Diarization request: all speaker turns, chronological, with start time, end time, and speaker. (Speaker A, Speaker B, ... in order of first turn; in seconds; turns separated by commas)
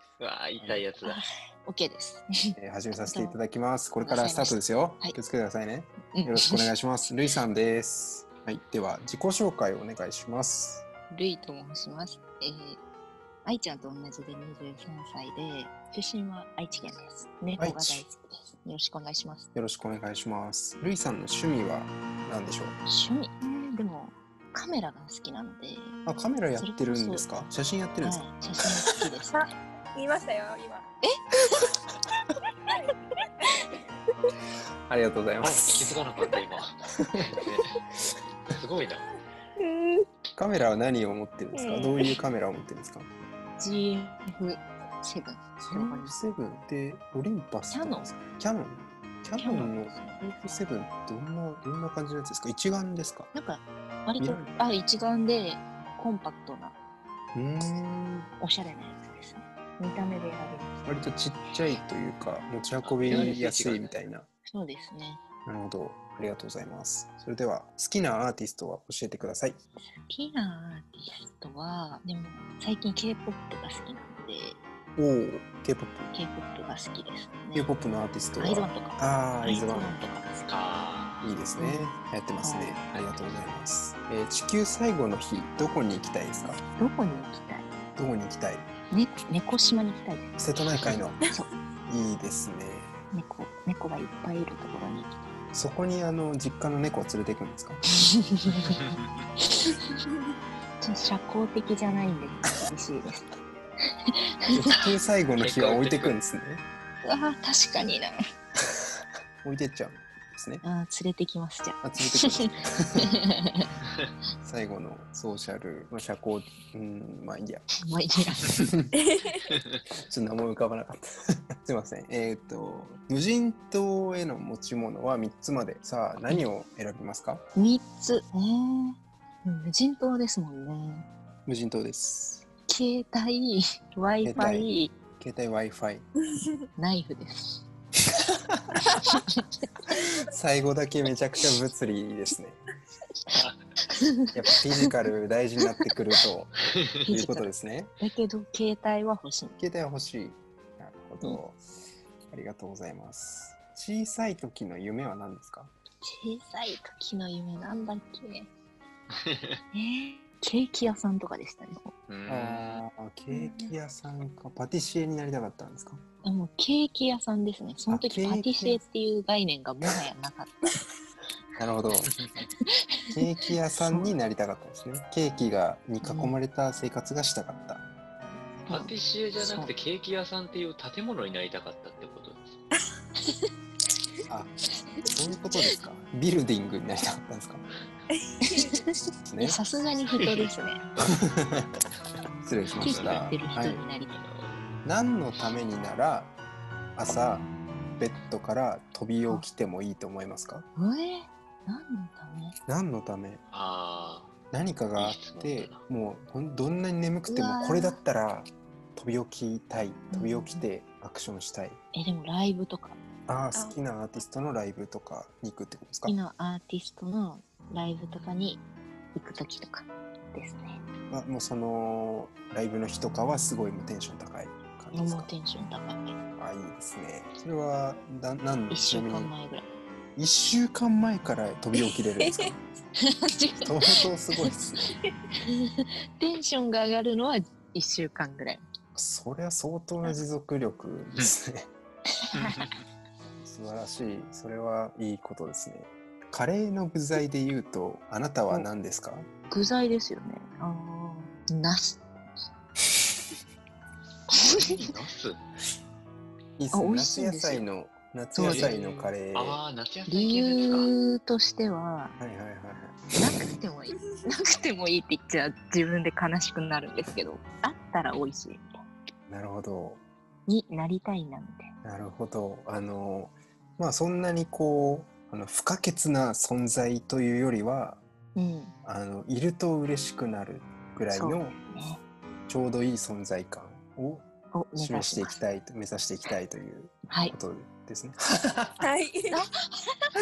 Speaker A: 0.2-1.2, Speaker B: 1.0-3.4, Speaker C: 2.6-10.8, Speaker B: 4.0-5.2, Speaker B: 6.1-6.7, Speaker B: 11.1-12.8, Speaker B: 13.4-19.5, Speaker C: 17.6-18.1, Speaker C: 19.5-22.7, Speaker B: 22.9-26.0, Speaker C: 26.1-28.2, Speaker B: 26.6-27.2, Speaker B: 28.0-29.5, Speaker D: 29.3-30.9, Speaker B: 31.0-31.7, Speaker C: 34.9-36.0, Speaker A: 35.4-37.7, Speaker C: 37.0-37.4, Speaker A: 38.5-39.1, Speaker B: 39.6-40.0, Speaker C: 40.4-43.1, Speaker B: 41.5-42.1, Speaker B: 43.6-46.1, Speaker C: 45.6-53.3, Speaker B: 47.7-48.1, Speaker B: 49.4-50.5, Speaker B: 53.3-56.7, Speaker C: 54.2-54.6, Speaker C: 57.3-58.3, Speaker B: 58.4-60.8, Speaker C: 60.8-64.3, Speaker A: 62.8-64.0, Speaker B: 63.1-63.4, Speaker B: 64.5-65.2, Speaker C: 65.5-69.6, Speaker B: 70.1-74.6, Speaker C: 75.0-76.1, Speaker B: 76.1-77.7, Speaker C: 77.5-80.2, Speaker B: 78.4-80.5, Speaker A: 80.5-81.2, Speaker C: 81.2-86.6, Speaker B: 81.6-82.8, Speaker A: 82.9-83.3, Speaker B: 86.7-87.7, Speaker C: 88.0-88.7, Speaker B: 88.9-90.4, Speaker C: 90.4-91.2, Speaker C: 91.9-93.0, Speaker B: 93.1-95.2, Speaker C: 95.5-97.8, Speaker B: 98.0-98.8, Speaker A: 98.6-99.2, Speaker B: 99.4-99.8, Speaker B: 100.8-103.3, Speaker C: 104.5-106.6, Speaker A: 105.4-106.2, Speaker B: 107.0-108.2, Speaker C: 109.4-110.6, Speaker B: 110.6-113.7, Speaker C: 111.8-113.1, Speaker C: 114.4-117.7, Speaker B: 117.8-118.6, Speaker C: 118.5-118.9, Speaker D: 118.9-119.5, Speaker C: 120.0-121.0, Speaker C: 121.6-127.4, Speaker B: 127.5-131.1, Speaker C: 131.4-132.5, Speaker B: 132.7-134.9, Speaker C: 134.2-136.1, Speaker B: 136.8-137.6, Speaker C: 138.5-138.8, Speaker B: 139.0-139.4, Speaker C: 139.9-142.6, Speaker A: 143.3-143.6, Speaker B: 143.9-144.3, Speaker C: 144.3-146.5, Speaker B: 147.1-149.6, Speaker C: 147.1-147.9, Speaker C: 149.6-151.6, Speaker C: 152.3-155.7, Speaker B: 156.0-158.5, Speaker A: 159.1-159.6, Speaker B: 159.7-161.9, Speaker A: 162.1-162.8, Speaker C: 162.3-166.0, Speaker B: 163.3-163.7, Speaker B: 166.2-170.6, Speaker C: 167.9-168.8, Speaker C: 171.6-172.1, Speaker A: 172.0-172.4, Speaker C: 173.1-177.8, Speaker B: 173.9-174.1, Speaker B: 176.0-176.3, Speaker B: 178.7-179.7, Speaker A: 178.7-182.6, Speaker C: 184.3-187.6, Speaker D: 188.1-188.8, Speaker B: 188.4-190.8, Speaker C: 189.2-189.6, Speaker A: 190.1-190.5, Speaker C: 191.1-191.7, Speaker C: 192.4-193.8, Speaker B: 192.8-194.2, Speaker A: 192.9-193.2, Speaker A: 194.1-194.6, Speaker C: 194.8-196.3, Speaker C: 196.9-197.5, Speaker C: 198.0-200.7, Speaker B: 200.8-202.6, Speaker C: 202.7-203.4, Speaker A: 203.5-204.3, Speaker C: 204.5-211.8, Speaker A: 205.0-205.8, Speaker B: 207.3-208.0, Speaker B: 210.1-210.7, Speaker B: 211.9-213.0, Speaker C: 213.3-216.2, Speaker B: 216.1-218.6, Speaker B: 219.1-220.8, Speaker C: 221.1-225.3, Speaker B: 224.9-226.2, Speaker C: 226.4-229.3, Speaker B: 228.7-229.7, Speaker C: 230.2-232.6, Speaker B: 233.0-233.7, Speaker C: 233.6-234.9, Speaker B: 235.5-238.6, Speaker C: 238.9-241.7, Speaker B: 242.2-242.7, Speaker A: 242.4-242.7, Speaker C: 243.4-249.3, Speaker B: 249.5-252.0, Speaker B: 254.3-254.7, Speaker A: 254.4-255.4, Speaker C: 256.6-259.6, Speaker B: 256.7-257.6, Speaker B: 258.3-258.7, Speaker A: 258.4-260.9, Speaker B: 260.1-262.1, Speaker C: 262.2-263.0, Speaker B: 263.1-268.7, Speaker C: 269.3-270.0, Speaker B: 270.5-271.7, Speaker C: 271.8-278.0, Speaker B: 278.4-278.7, Speaker C: 278.8-281.6, Speaker B: 281.1-282.0, Speaker C: 282.5-288.8, Speaker B: 284.5-285.4, Speaker B: 287.1-287.3, Speaker D: 288.8-289.4, Speaker B: 289.3-289.9